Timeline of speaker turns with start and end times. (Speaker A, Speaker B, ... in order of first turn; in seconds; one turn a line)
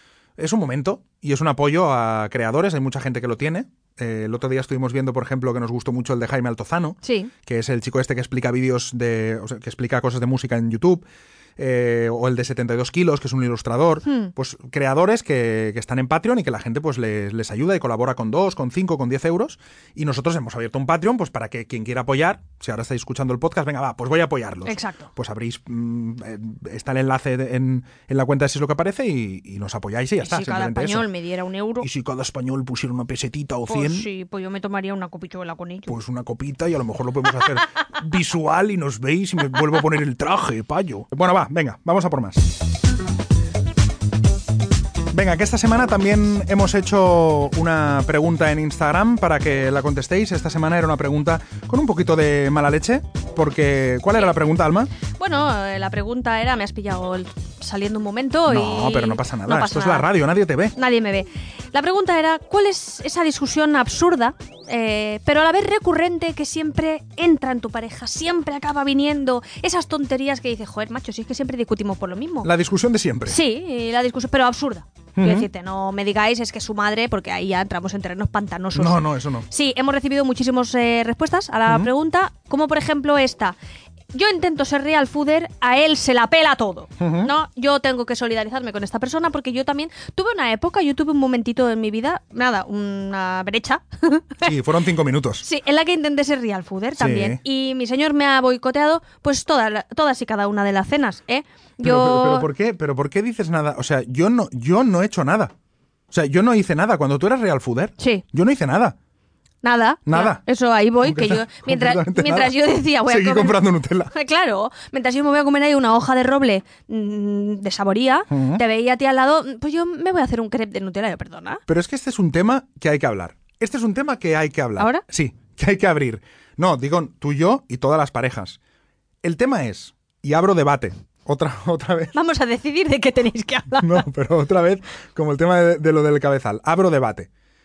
Speaker A: 0.4-11.1
Speaker B: 7.0-7.3
Speaker A: 11.6-31.1
Speaker B: 14.1-14.3
Speaker B: 24.7-25.1
Speaker B: 30.2-31.9
Speaker A: 31.8-34.1
Speaker B: 33.7-35.9
Speaker A: 35.9-42.5
Speaker A: 45.1-54.9
Speaker B: 55.2-60.1
Speaker A: 58.5-60.8
Speaker B: 60.8-72.5
Speaker A: 72.4-73.4
Speaker B: 73.3-83.6
Speaker A: 75.2-75.5
Speaker A: 78.8-79.5
Speaker B: 84.1-94.5
Speaker A: 87.0-87.3
Speaker A: 94.4-95.5
Speaker B: 95.4-102.5
Speaker A: 97.0-97.4
Speaker A: 101.8-105.5
Speaker A: 106.1-109.0
Speaker B: 109.6-121.6
Speaker A: 110.1-110.4
Speaker A: 111.0-112.5
Speaker A: 113.1-114.1
Speaker A: 118.3-118.6
Speaker A: 121.7-128.6
Speaker B: 124.8-125.0
Speaker A: 129.2-132.1
Speaker B: 132.1-134.1
Speaker A: 133.8-137.3